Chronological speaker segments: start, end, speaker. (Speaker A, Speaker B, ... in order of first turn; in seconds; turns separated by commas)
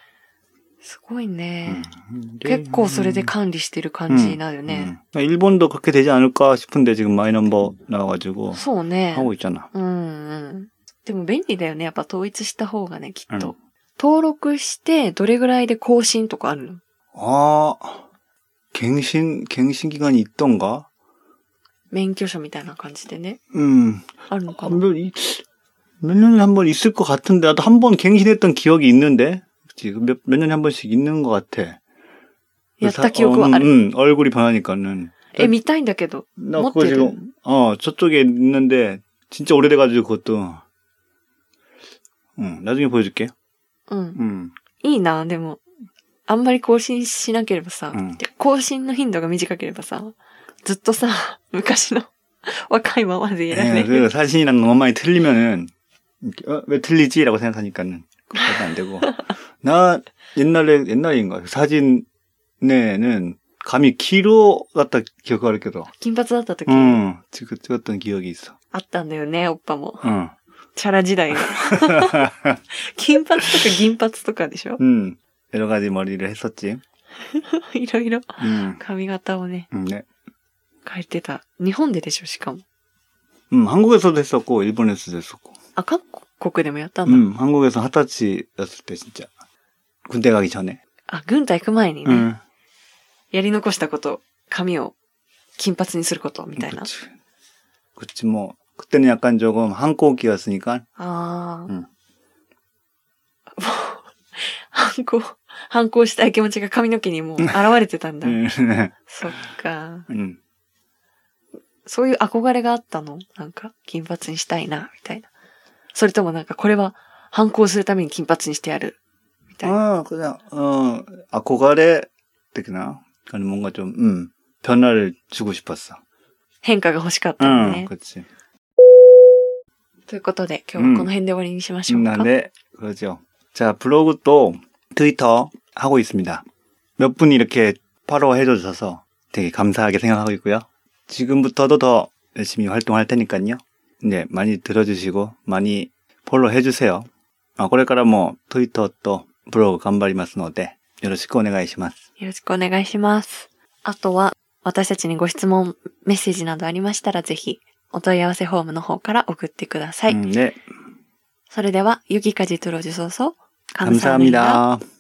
Speaker A: 0.8-1.9, Speaker B: 1.6-3.3, Speaker A: 2.4-4.9, Speaker B: 4.1-9.7, Speaker A: 8.5-16.8, Speaker B: 17.1-18.1, Speaker B: 18.7-20.9, Speaker A: 21.9-23.4, Speaker B: 23.5-25.4, Speaker A: 24.3-24.8, Speaker B: 26.0-31.8, Speaker A: 32.8-33.7, Speaker B: 32.8-35.5, Speaker A: 35.3-37.2, Speaker B: 36.4-40.6, Speaker B: 42.4-43.3, Speaker A: 43.9-44.2, Speaker B: 44.2-44.5, Speaker A: 44.8-45.6, Speaker A: 46.3-54.1, Speaker B: 47.9-48.2, Speaker B: 53.5-62.1, Speaker B: 62.6-65.9, Speaker A: 65.9-67.0, Speaker B: 66.7-68.5, Speaker A: 68.7-70.1, Speaker B: 70.0-70.3, Speaker A: 70.8-74.8, Speaker B: 71.8-72.5, Speaker B: 74.8-76.8, Speaker A: 77.2-79.7, Speaker B: 78.4-78.8, Speaker B: 79.7-80.1, Speaker A: 80.8-82.6, Speaker B: 83.5-85.5, Speaker A: 85.8-87.3, Speaker B: 87.1-89.3, Speaker B: 90.1-90.8, Speaker A: 91.1-92.3, Speaker B: 92.1-92.4, Speaker A: 93.3-94.9, Speaker A: 95.6-96.9, Speaker B: 96.6-97.1, Speaker B: 98.0-100.9, Speaker A: 101.0-101.7, Speaker A: 103.6-108.4, Speaker B: 108.2-109.1, Speaker A: 109.1-110.1, Speaker B: 110.1-110.4, Speaker A: 111.8-115.3, Speaker A: 115.9-119.0, Speaker B: 119.6-126.0, Speaker A: 126.6-127.9, Speaker B: 127.4-128.3, Speaker A: 130.1-132.3, Speaker B: 130.8-131.1, Speaker B: 131.9-136.4, Speaker B: 137.0-152.0, Speaker A: 152.2-160.2, Speaker B: 160.1-160.6, Speaker A: 161.5-164.6, Speaker B: 163.8-164.8